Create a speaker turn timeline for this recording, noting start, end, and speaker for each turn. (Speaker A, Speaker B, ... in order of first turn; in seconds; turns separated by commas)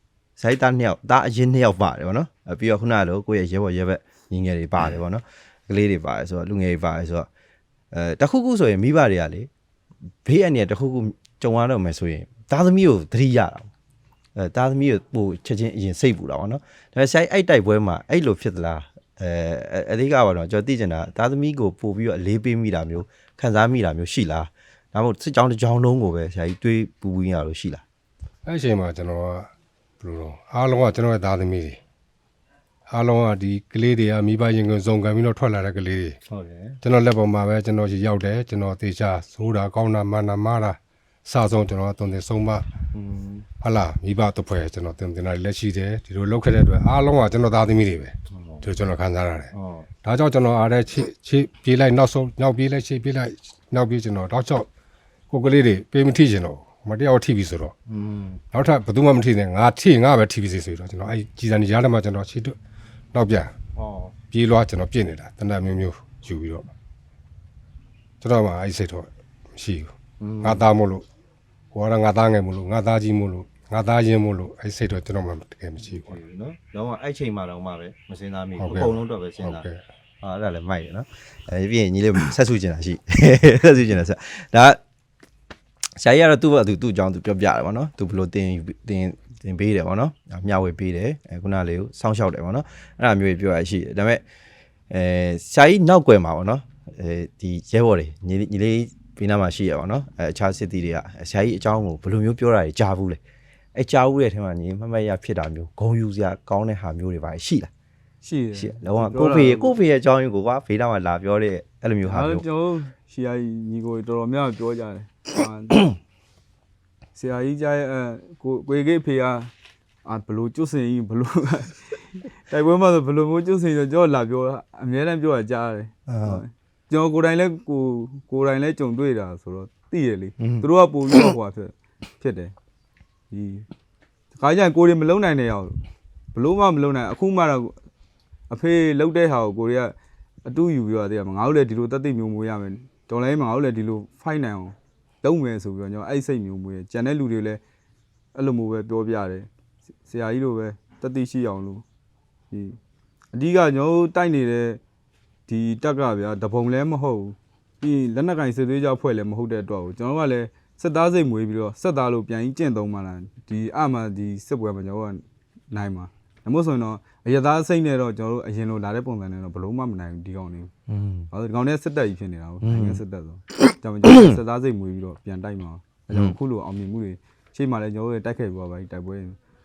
Speaker A: 0.4-7.3, Speaker A: 7.9-9.5, Speaker A: 10.2-13.7, Speaker A: 14.3-27.8, Speaker B: 28.4-31.8, Speaker B: 32.9-36.2, Speaker A: 36.3-36.8, Speaker B: 36.8-42.6, Speaker A: 42.9-43.5, Speaker B: 43.6-49.5, Speaker A: 48.3-48.7, Speaker A: 49.5-49.9, Speaker B: 50.0-54.7, Speaker B: 55.3-57.8, Speaker A: 57.9-58.4, Speaker B: 58.5-62.6, Speaker B: 63.1-63.5, Speaker A: 63.8-64.2, Speaker B: 64.3-66.7, Speaker B: 68.2-71.0, Speaker A: 70.2-70.7, Speaker B: 71.7-76.2, Speaker A: 76.0-79.7, Speaker B: 78.6-79.8, Speaker A: 80.2-84.8, Speaker A: 86.0-94.2, Speaker A: 94.9-103.2, Speaker A: 103.7-107.7, Speaker C: 108.2-109.7, Speaker A: 108.5-112.5, Speaker C: 112.1-116.0, Speaker C: 117.2-119.5, Speaker C: 120.0-132.5, Speaker A: 126.1-126.4, Speaker A: 130.4-130.7, Speaker C: 133.3-133.7, Speaker C: 134.3-135.8, Speaker C: 136.3-137.8, Speaker C: 138.5-147.6, Speaker C: 148.3-149.5, Speaker C: 150.1-151.8, Speaker C: 152.5-152.8, Speaker C: 153.3-154.8, Speaker C: 155.5-170.7, Speaker A: 170.9-171.3, Speaker C: 171.3-179.4, Speaker A: 172.6-173.0, Speaker A: 174.1-174.4, Speaker A: 176.1-176.4